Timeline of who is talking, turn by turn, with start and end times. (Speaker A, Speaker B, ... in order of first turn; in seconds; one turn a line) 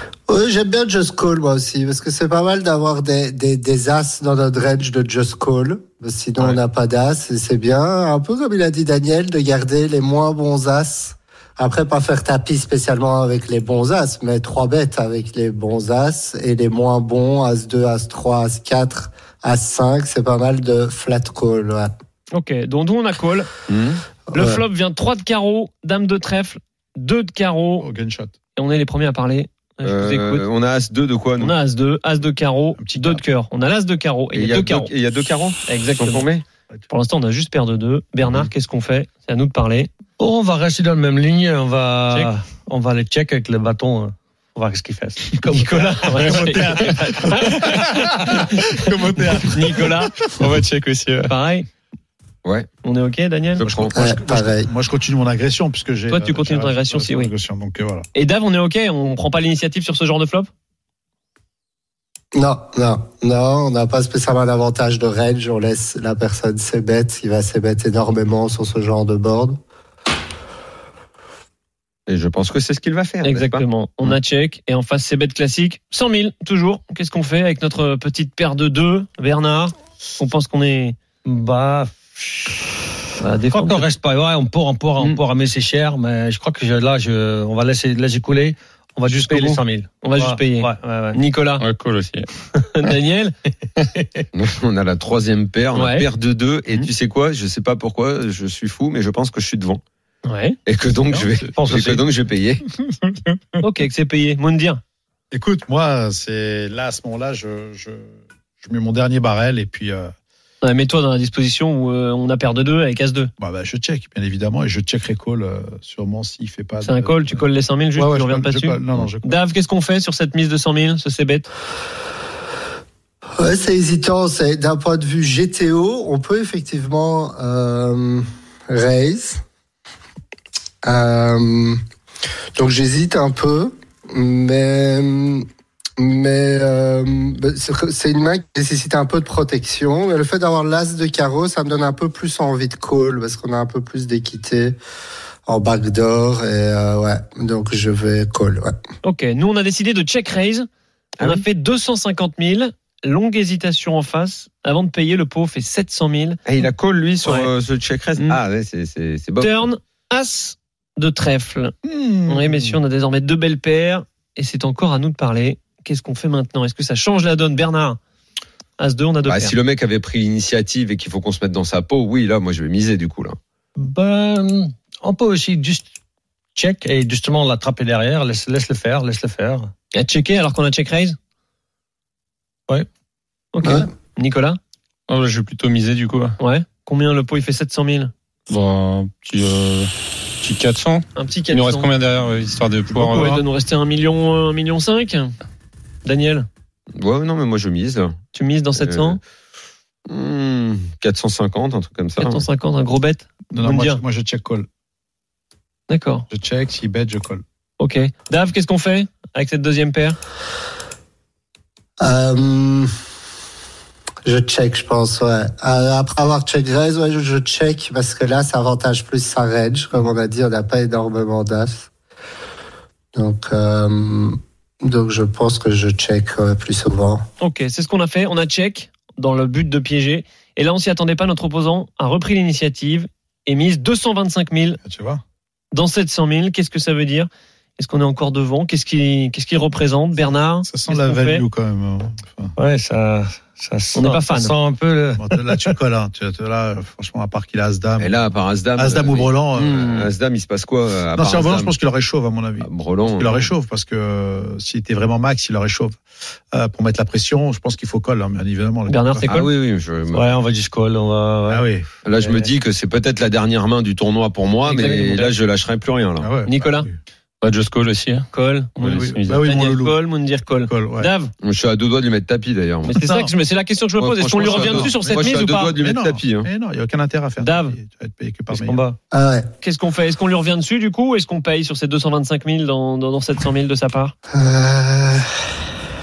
Speaker A: 0.3-21.9
Speaker B: 22.3-23.5
Speaker C: 23.7-24.0
Speaker A: 24.3-24.6
Speaker B: 24.3-27.9
Speaker D: 27.8-28.3
Speaker B: 28.6-30.4
Speaker C: 29.8-31.5
Speaker B: 31.4-34.9
Speaker D: 32.8-33.2
Speaker C: 34.3-36.4
Speaker B: 35.6-36.2
Speaker B: 36.9-39.9
Speaker E: 40.2-47.5
Speaker D: 45.4-50.5
Speaker B: 45.7-47.6
Speaker B: 49.5-50.2
Speaker F: 50.2-51.3
Speaker B: 51.3-51.7
Speaker B: 52.8-53.6
Speaker C: 53.5-54.0
Speaker D: 53.6-58.0
Speaker A: 53.9-54.7
Speaker B: 56.1-57.3
Speaker B: 58.1-60.5
Speaker A: 62.3-69.6
Speaker C: 72.1-74.2
Speaker B: 73.2-81.0
Speaker E: 81.2-82.6
Speaker B: 83.2-83.8
Speaker E: 83.5-91.2
Speaker B: 89.1-91.6
Speaker F: 91.6-92.3
Speaker B: 92.5-93.3
Speaker C: 94.3-99.8
Speaker B: 95.7-96.1
Speaker B: 100.2-100.6
Speaker C: 100.7-102.6
Speaker D: 101.1-101.5
Speaker E: 101.5-102.0
Speaker D: 103.0-103.4
Speaker B: 103.6-104.8
Speaker D: 105.3-110.1
Speaker B: 110.6-113.3
Speaker D: 113.4-119.3
Speaker B: 116.8-121.5
Speaker A: 123.4-129.4
Speaker A: 130.8-131.8
Speaker A: 132.5-135.4
Speaker A: 136.0-144.8
Speaker A: 145.5-148.7
Speaker B: 149.0-150.7
Speaker C: 151.2-151.4
Speaker B: 151.2-156.4
Speaker C: 156.4-159.7
Speaker B: 157.2-157.5
Speaker B: 159.4-161.7
Speaker D: 161.8-162.8
Speaker B: 162.2-168.0
Speaker B: 168.8-169.5
Speaker C: 169.2-173.4
Speaker E: 173.8-175.8
Speaker E: 176.6-179.7
Speaker B: 179.9-181.2
Speaker B: 183.5-184.6
Speaker F: 185.1-186.4
Speaker B: 186.4-188.1
Speaker F: 188.5-193.3
Speaker B: 191.1-191.9
Speaker D: 192.9-193.4
Speaker B: 192.9-195.3
Speaker B: 196.0-196.5
Speaker C: 197.0-198.2
Speaker B: 198.3-199.2
Speaker C: 198.8-199.2
Speaker C: 200.1-202.4
Speaker B: 202.2-204.0
Speaker D: 203.5-204.7
Speaker B: 205.9-206.3
Speaker D: 206.3-207.4
Speaker B: 207.8-210.2
Speaker A: 212.0-212.9
Speaker A: 214.2-221.9
Speaker A: 223.1-227.2
Speaker B: 227.4-234.8
Speaker D: 234.8-235.2
Speaker B: 235.7-241.4
Speaker D: 240.6-242.5
Speaker E: 242.6-245.7
Speaker B: 243.9-244.5
Speaker D: 245.2-248.2
Speaker C: 248.0-251.7
Speaker D: 248.8-249.9
Speaker B: 249.6-250.1
Speaker D: 251.1-256.0
Speaker C: 252.6-253.4
Speaker D: 256.5-259.5
Speaker B: 258.9-259.5
Speaker C: 259.3-260.4
Speaker E: 260.1-261.6
Speaker D: 261.5-261.9
Speaker C: 262.0-266.4
Speaker E: 262.2-262.5
Speaker E: 264.6-265.3
Speaker D: 266.2-266.9
Speaker B: 266.4-266.9
Speaker F: 267.4-269.5
Speaker B: 268.3-271.3
Speaker D: 268.8-270.0
Speaker D: 270.7-271.1
Speaker C: 271.4-272.9
Speaker B: 272.9-275.8
Speaker D: 272.9-273.3
Speaker C: 274.0-276.5
Speaker D: 274.4-278.8
Speaker B: 277.4-277.7
Speaker E: 278.5-279.0
Speaker A: 279.1-279.5
Speaker B: 279.6-284.1
Speaker A: 284.3-285.3